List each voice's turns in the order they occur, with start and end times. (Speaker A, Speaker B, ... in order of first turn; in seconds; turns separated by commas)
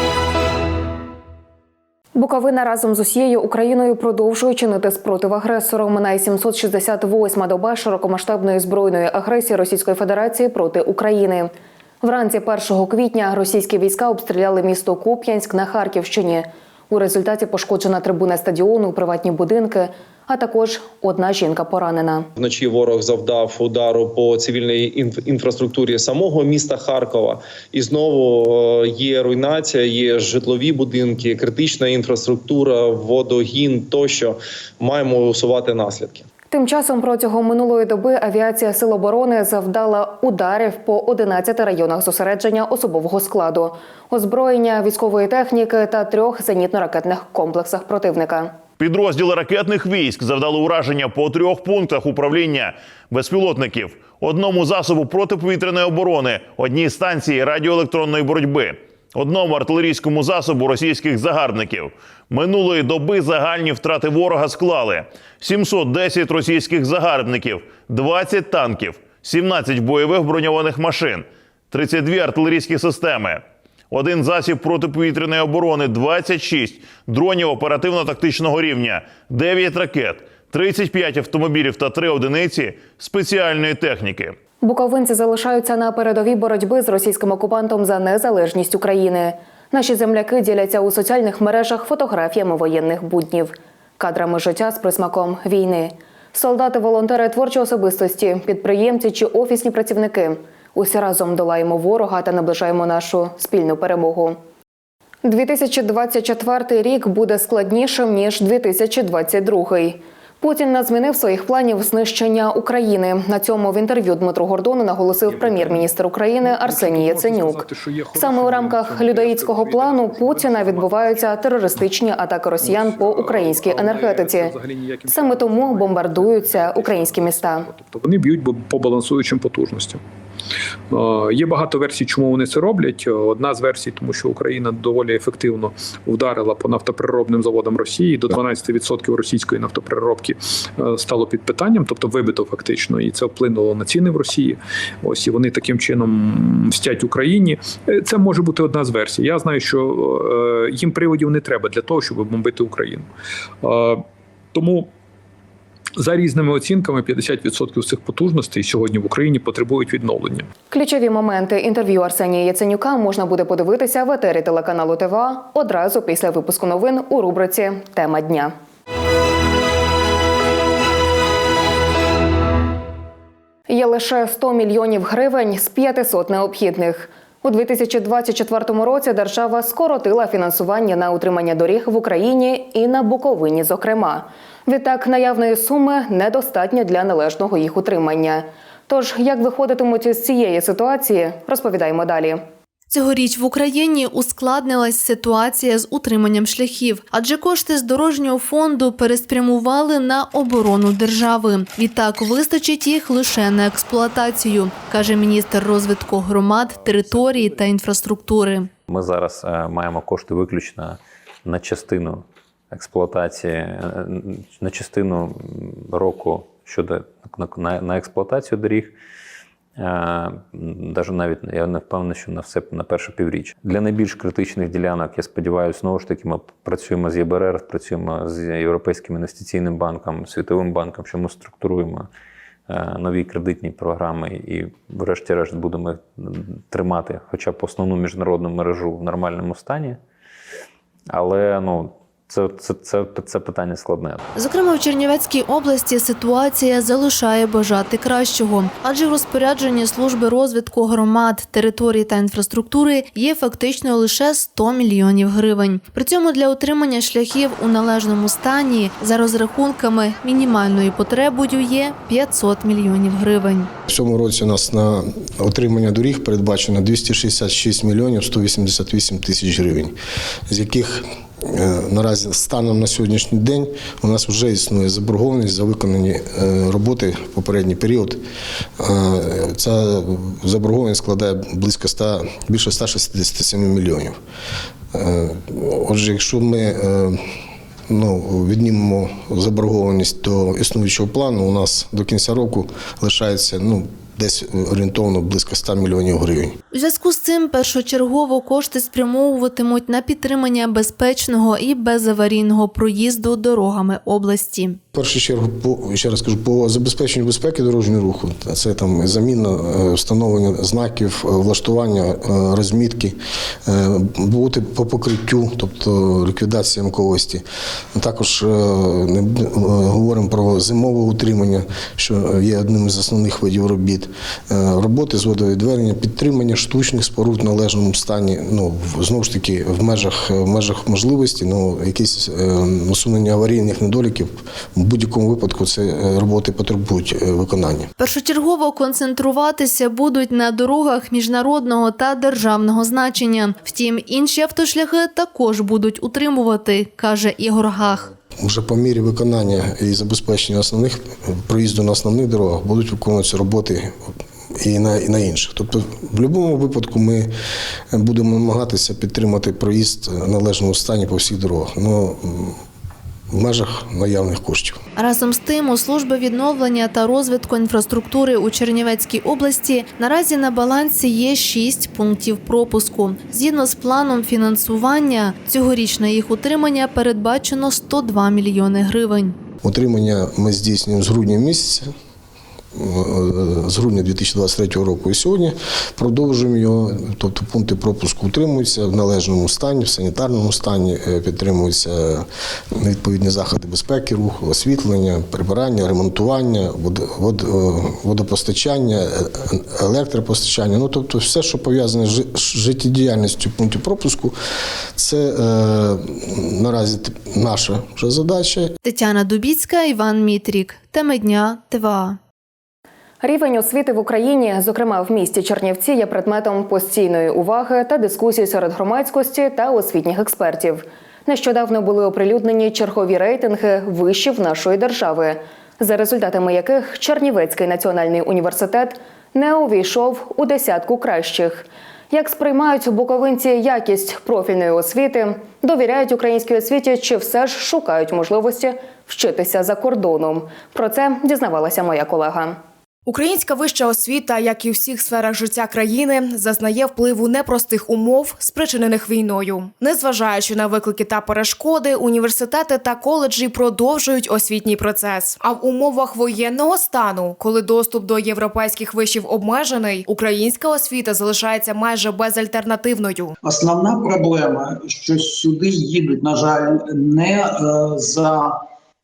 Speaker A: 2.1-11.5, Speaker A: 12.0-22.3, Speaker B: 22.4-36.2, Speaker A: 36.5-48.5, Speaker C: 53.3-54.8, Speaker C: 55.6-58.2, Speaker C: 67.9-68.7, Speaker C: 70.6-71.0, Speaker C: 72.8-73.2, Speaker C: 74.5-79.4, Speaker C: 81.2-84.3, Speaker A: 84.6-104.4, Speaker A: 105.2-127.7, Speaker D: 115.3-115.9, Speaker D: 116.5-121.1, Speaker D: 122.6-130.0, Speaker D: 130.9-153.1, Speaker D: 153.6-154.0, Speaker D: 154.6-154.9, Speaker D: 156.0-160.5, Speaker A: 160.7-168.5, Speaker A: 173.7-192.4, Speaker E: 192.9-208.7, Speaker F: 208.9-218.9, Speaker F: 219.8-232.1, Speaker F: 232.7-240.0, Speaker F: 241.1-244.2, Speaker E: 244.3-263.7, Speaker G: 263.9-269.9, Speaker G: 270.5-278.2, Speaker G: 278.8-284.2, Speaker G: 284.9-287.2, Speaker G: 287.9-296.6, Speaker E: 296.7-304.8, Speaker G: 304.9-337.9, Speaker E: 338.0-348.1, Speaker G: 348.4-353.9, Speaker G: 354.6-357.3, Speaker G: 357.9-362.6, Speaker G: 363.3-364.8, Speaker E: 364.9-379.4, Speaker G: 379.6-381.9, Speaker G: 382.7-404.4, Speaker G: 405.0-408.7, Speaker E: 408.8-412.2, Speaker A: 413.2-442.6, Speaker H: 443.1-463.3, Speaker I: 463.4-468.6